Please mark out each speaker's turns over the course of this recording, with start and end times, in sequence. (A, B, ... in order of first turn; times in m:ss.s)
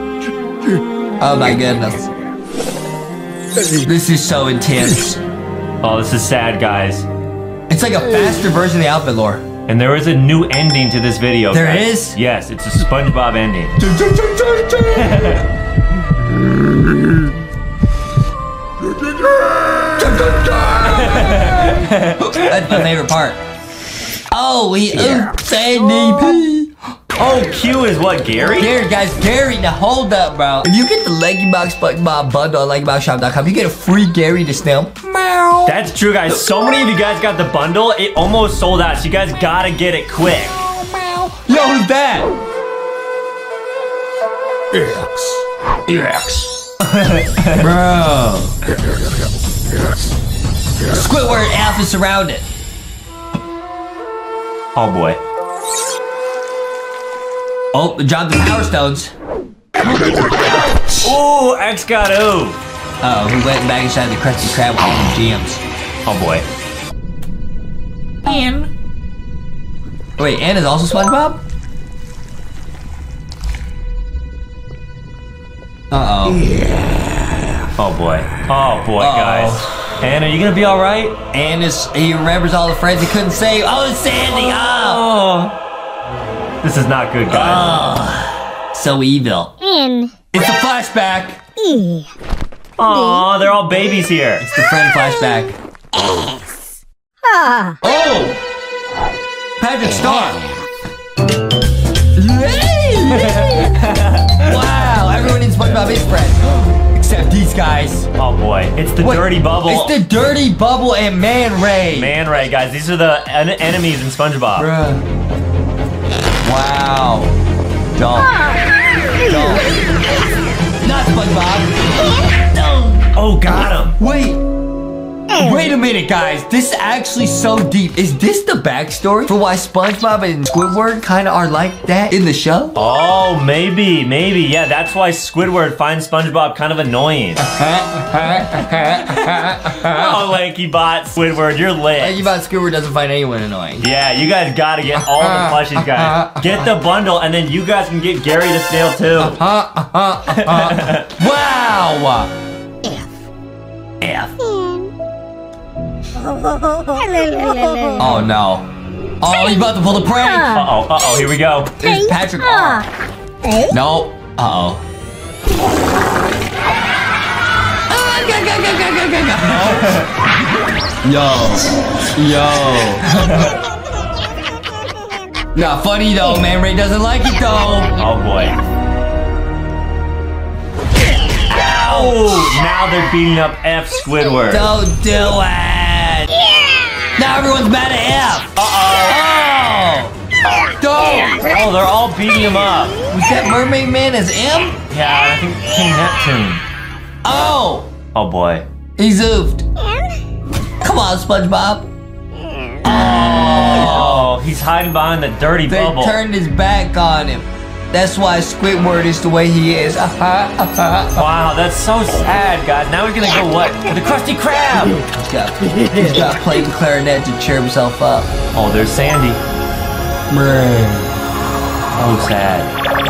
0:01.2-0:02.1 A
0:03.8-0:05.2 A
0:05.8-0:07.1 B
0:07.7-0:09.4 A
0:09.7-0:13.8 B
0:11.5-0:12.2 A
0:13.8-0:15.3 A
0:14.9-0:15.4 B
0:19.9-0:23.4 A
0:20.8-0:22.9 B
0:24.3-0:26.7 A
0:27.2-0:28.7 B
0:28.6-0:35.8 A
0:35.6-0:40.6 B
0:40.7-0:42.3 A
0:44.7-0:46.5 A
0:46.8-0:47.7 B
0:47.5-0:48.6 A
0:50.9-0:52.4 A
0:54.7-0:55.2 B
0:57.7-0:59.1 A
1:00.5-1:01.0 A
1:01.0-1:02.6 B
1:03.0-1:05.6 A
1:06.0-1:06.5 B
1:08.2-1:08.7 A
1:10.2-1:11.4 A
1:15.9-1:16.4 A
1:17.8-1:21.2 B
1:19.0-1:19.8 A
1:21.3-1:25.0 A
1:24.3-1:25.6 B
1:26.6-1:27.9 B
1:27.3-1:29.7 A
1:30.3-1:31.4 A
1:32.8-1:34.4 B
1:34.4-1:35.5 A
1:37.8-1:38.4 A
1:39.6-1:40.4 A
1:42.2-1:43.8 A
1:43.1-1:44.6 B
1:44.4-1:48.1 A
1:48.1-1:49.9 B
1:49.0-1:52.2 A
1:51.9-1:54.7 B
1:54.6-1:55.0 A
1:56.4-1:57.3 A
1:57.9-1:58.5 A
1:59.1-1:59.7 A
2:00.8-2:03.0 A
2:03.1-2:04.0 B
2:04.0-2:04.4 A
2:05.3-2:12.8 A
2:12.7-2:17.4 B
2:17.4-2:20.2 A
2:19.3-2:22.3 B
2:22.0-2:23.9 A
2:23.8-2:29.4 B
2:25.1-2:26.5 A
2:29.2-2:32.3 A
2:30.3-2:31.1 B
2:34.0-2:34.3 A
2:38.0-2:38.7 A
2:39.2-2:40.6 A
2:40.5-2:41.8 B
2:41.8-2:42.9 A
2:43.7-2:44.8 A
2:47.9-2:50.0 A
2:49.4-2:50.1 B
2:51.0-2:53.1 A
2:53.1-2:53.6 B
2:55.5-2:57.9 A
2:58.0-2:58.6 B
3:01.5-3:02.6 A
3:01.6-3:04.7 B
3:04.5-3:06.3 A
3:07.2-3:10.1 A
3:08.6-3:09.2 B
3:10.8-3:11.4 A
3:11.3-3:13.0 B
3:13.1-3:14.8 A
3:14.9-3:16.6 B
3:17.2-3:17.9 A
3:18.1-3:18.6 B
3:19.0-3:19.6 A
3:20.8-3:21.9 A
3:22.8-3:24.3 A
3:23.5-3:26.2 B
3:25.7-3:31.2 A
3:31.2-3:35.0 B
3:35.0-3:38.3 A
3:38.5-3:39.4 B
3:40.3-3:41.1 A
3:41.9-3:42.7 B